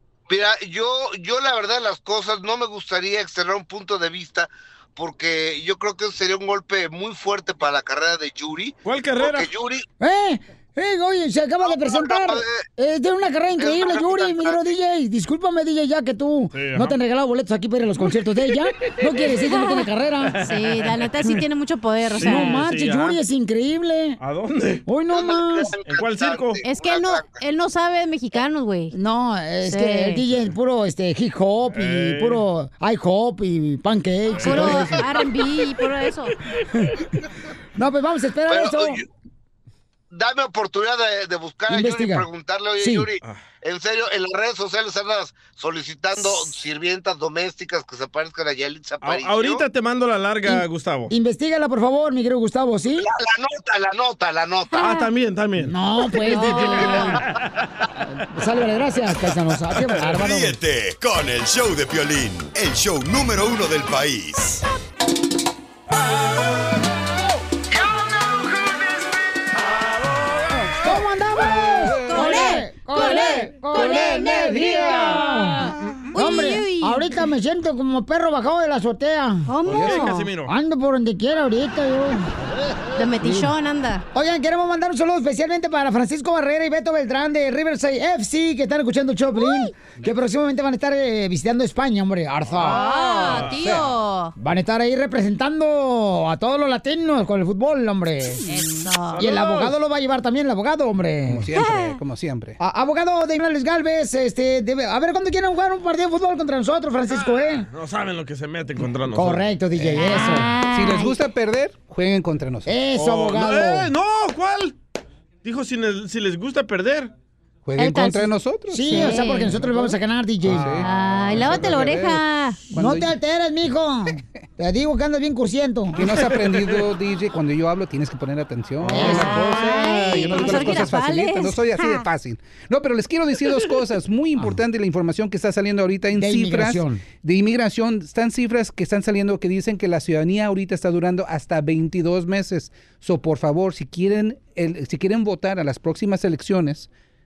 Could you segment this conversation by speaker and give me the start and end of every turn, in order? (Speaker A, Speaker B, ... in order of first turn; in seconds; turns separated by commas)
Speaker A: 0.3-9.8, Speaker B: 8.8-9.5, Speaker C: 10.0-20.3, Speaker A: 11.6-12.6, Speaker A: 13.6-14.7, Speaker B: 16.5-16.9, Speaker D: 19.4-19.9, Speaker B: 20.3-21.0, Speaker D: 20.4-22.6, Speaker B: 22.1-23.2, Speaker C: 22.2-24.2, Speaker B: 24.2-24.8, Speaker C: 24.9-25.7, Speaker A: 25.1-27.4, Speaker B: 25.9-26.6, Speaker D: 26.6-28.9, Speaker C: 28.9-35.0, Speaker D: 29.6-30.2, Speaker B: 31.7-32.4, Speaker B: 34.3-35.1, Speaker D: 34.4-36.3, Speaker C: 37.8-39.0, Speaker A: 38.5-39.0, Speaker A: 40.1-49.6, Speaker C: 41.7-42.2, Speaker C: 42.8-43.1, Speaker B: 49.0-51.1, Speaker C: 50.5-53.1, Speaker A: 53.0-54.9, Speaker D: 54.7-55.0, Speaker B: 54.8-55.7, Speaker C: 55.6-57.2, Speaker D: 56.2-57.2, Speaker B: 56.2-57.4, Speaker C: 58.1-60.6, Speaker E: 60.1-64.6, Speaker C: 70.7-79.5, Speaker D: 72.0-77.1, Speaker D: 79.5-80.3, Speaker B: 79.6-80.5, Speaker F: 79.8-80.0, Speaker C: 80.5-82.3, Speaker D: 83.0-84.0, Speaker C: 83.2-83.5, Speaker C: 84.1-92.9, Speaker B: 92.6-93.6, Speaker D: 92.6-94.3, Speaker F: 93.5-93.9, Speaker C: 94.4-98.4, Speaker D: 98.5-99.2, Speaker B: 99.1-99.8, Speaker C: 99.2-101.5, Speaker F: 101.3-102.6, Speaker D: 101.5-102.0, Speaker C: 102.6-107.7, Speaker B: 107.1-109.5, Speaker C: 109.1-110.5, Speaker F: 109.8-112.8, Speaker D: 109.9-111.2, Speaker C: 112.7-113.9, Speaker B: 112.9-114.8, Speaker B: 115.4-117.1, Speaker F: 117.7-123.1, Speaker D: 117.8-119.5, Speaker C: 118.7-120.8, Speaker D: 120.8-122.6, Speaker C: 122.7-126.0, Speaker F: 126.0-146.9, Speaker B: 126.6-126.8, Speaker B: 128.8-130.7, Speaker C: 128.9-129.4, Speaker D: 128.9-132.0, Speaker C: 136.1-137.0